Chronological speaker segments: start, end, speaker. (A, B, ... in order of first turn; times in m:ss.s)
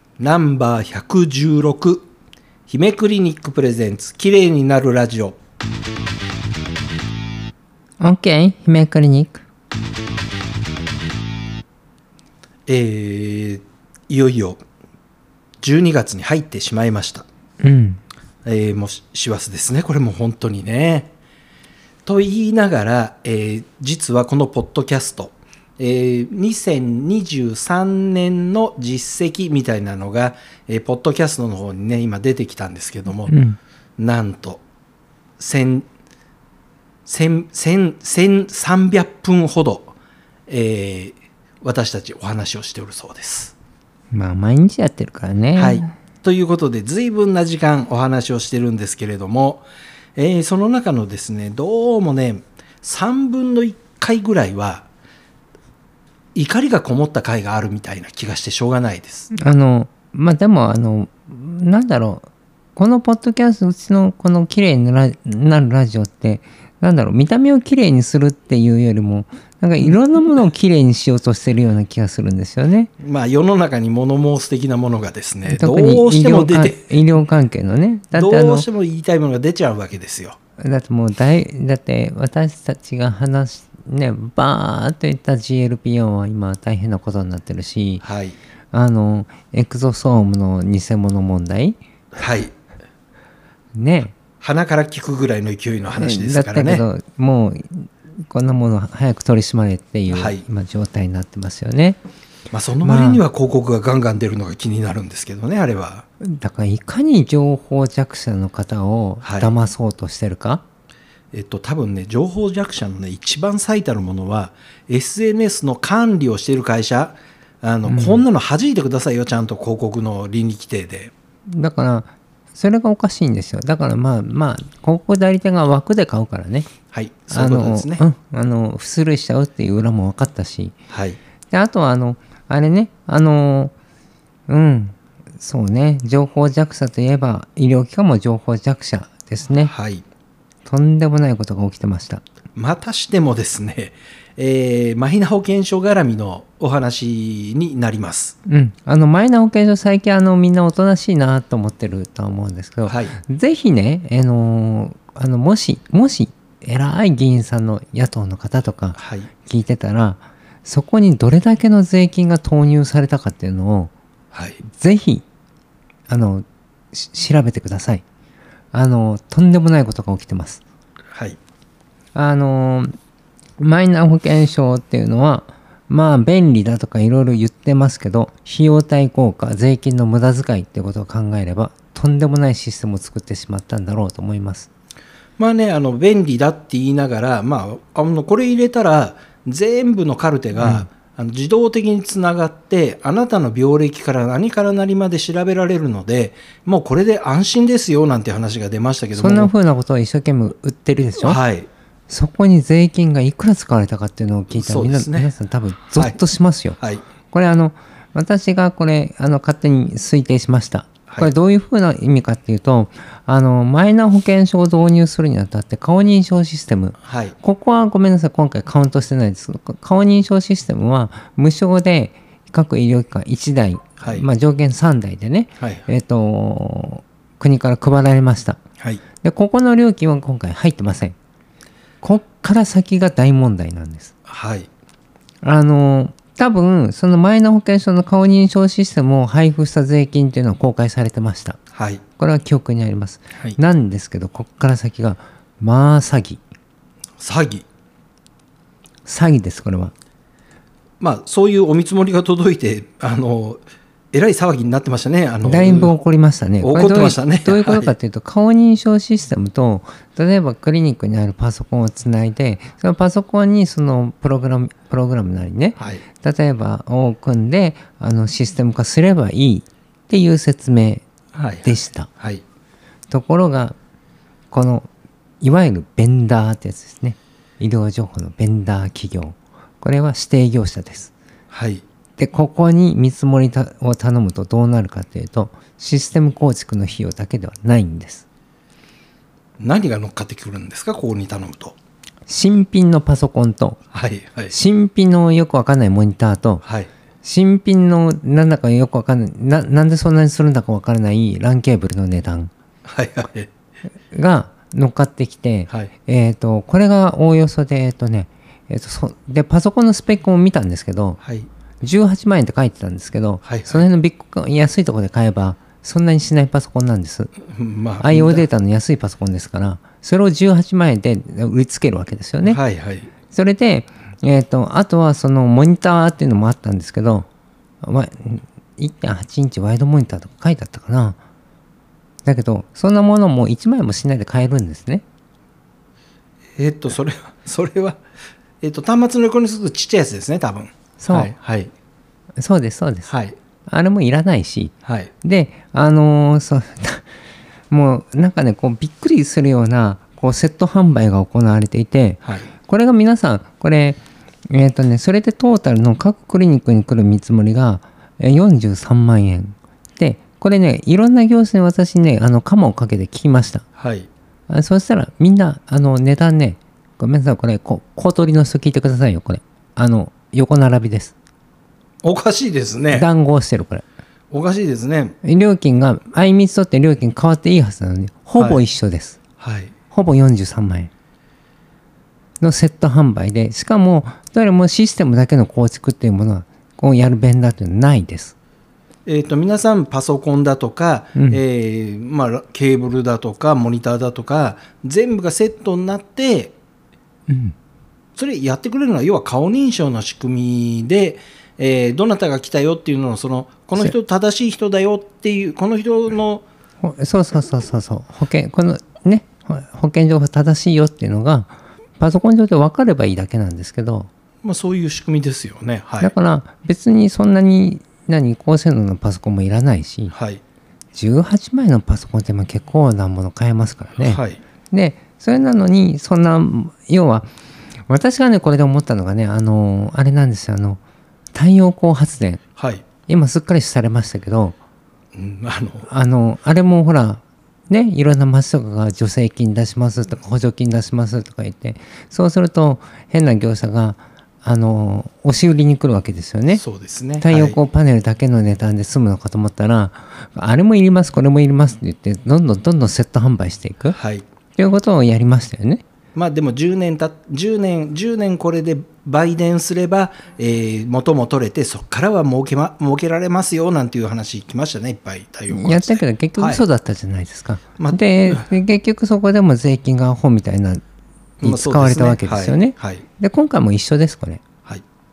0:00.2-0:02.1 A
0:02.7-0:05.4 A
0:08.0-0:09.4 B
0:12.7-0:14.6 A
0:15.6-0:17.2 A
0:17.6-0:18.0 B
0:18.4-0:21.1 A
0:22.0-0:33.3 A
0:33.3-0:33.6 B
0:34.0-0:34.6 A
0:35.4-0:35.8 A
0:37.0-0:39.9 A
0:40.5-0:43.5 A
0:44.1-0:45.9 B
0:45.6-0:54.9 A
0:56.3-0:59.3 A
0:59.4-1:12.9 B
1:13.0-1:16.8 A
1:15.5-1:18.6 B
1:18.1-1:20.4 A
1:20.6-1:28.0 B
1:28.0-1:28.4 A
1:28.7-1:31.8 B
1:32.2-1:32.5 A
1:33.7-1:34.1 B
1:34.4-1:36.8 A
1:36.0-1:42.0 B
1:40.1-1:40.4 A
1:42.5-1:46.0 A
1:42.8-1:43.2 B
1:46.2-1:50.6 B
1:49.2-1:49.5 A
1:51.3-2:01.1 A
1:57.9-1:58.2 B
2:01.5-2:06.7 B
2:06.9-2:08.0 A
2:07.3-2:10.7 B
2:10.9-2:11.2 A
2:11.5-2:13.7 B
2:14.5-2:19.7 B
2:19.6-2:20.0 A
2:20.6-2:22.2 B
2:22.5-2:28.3 A
2:28.5-2:43.9 B
2:32.8-2:33.2 A
2:38.9-2:39.3 A
2:44.3-2:44.6 A
2:44.7-2:45.2 B
2:46.1-2:48.0 B
2:48.7-2:50.6 B
2:52.1-2:52.9 B
2:53.6-3:04.7 B
3:05.4-3:19.5 A
3:10.6-3:10.9 B
3:19.1-3:21.4 B
3:21.2-3:21.7 A
3:22.1-3:26.8 B
3:24.5-3:25.3 A
3:27.3-3:48.6 B
3:37.0-3:37.3 A
3:44.0-3:44.3 A
3:49.2-3:51.1 B
3:52.0-3:54.1 B
3:54.3-3:54.7 A
3:55.4-4:01.6 B
4:01.7-4:02.0 A
4:02.2-4:06.4 B
4:07.2-4:07.6 A
4:09.0-4:09.9 B
4:11.0-4:16.0 A
4:15.4-4:31.0 B
4:16.6-4:17.9 A
4:31.3-4:32.4 A
4:31.6-4:32.1 B
4:33.1-4:33.7 B
4:34.5-4:34.9 B
4:35.4-4:41.1 B
4:41.5-4:41.8 A
4:42.2-4:48.2 B
4:49.6-4:51.7 A
4:52.3-4:53.8 B
4:53.9-4:54.5 A
4:54.5-4:56.6 B
4:56.6-4:56.9 A
4:57.2-5:02.5 B
5:02.8-5:03.5 A
5:04.1-5:11.2 B
5:11.2-5:11.5 A
5:11.8-5:17.3 B
5:13.4-5:13.8 A
5:17.5-5:18.5 A
5:18.0-5:22.6 B
5:22.4-5:23.1 A
5:23.3-5:27.3 B
5:27.8-5:31.2 B
5:32.2-5:35.0 B
5:36.6-5:38.0 A
5:38.6-5:41.7 A
5:41.0-5:41.3 B
5:42.4-5:43.1 B
5:43.1-5:43.4 A
5:43.7-5:47.0 B
5:44.8-5:45.1 A
5:47.7-6:03.6 B
6:03.8-6:04.1 A
6:04.5-6:11.1 B
6:12.0-6:13.1 A
6:12.9-6:13.8 B
6:14.3-6:15.1 A
6:15.2-6:19.2 B
6:19.4-6:19.7 A
6:19.9-6:20.9 B
6:22.4-6:28.3 B
6:29.0-6:36.6 A
6:37.3-6:37.5 B
6:38.2-6:46.4 A
6:46.8-6:54.1 B
6:54.4-6:56.1 A
6:56.0-7:00.1 B
7:00.1-7:00.4 A
7:00.9-7:07.3 B
7:04.0-7:04.4 A
7:07.9-7:10.8 B
7:11.3-7:12.4 B
7:12.6-7:12.8 A
7:13.1-7:14.6 B
7:15.1-7:15.9 A
7:15.9-7:26.6 B
7:26.5-7:27.6 A
7:27.2-7:34.0 B
7:33.9-7:34.2 A
7:34.6-7:35.8 B
7:36.1-7:46.6 A
7:45.5-7:50.8 B
7:47.8-7:48.4 A
7:51.4-7:53.0 A
7:51.4-7:54.4 B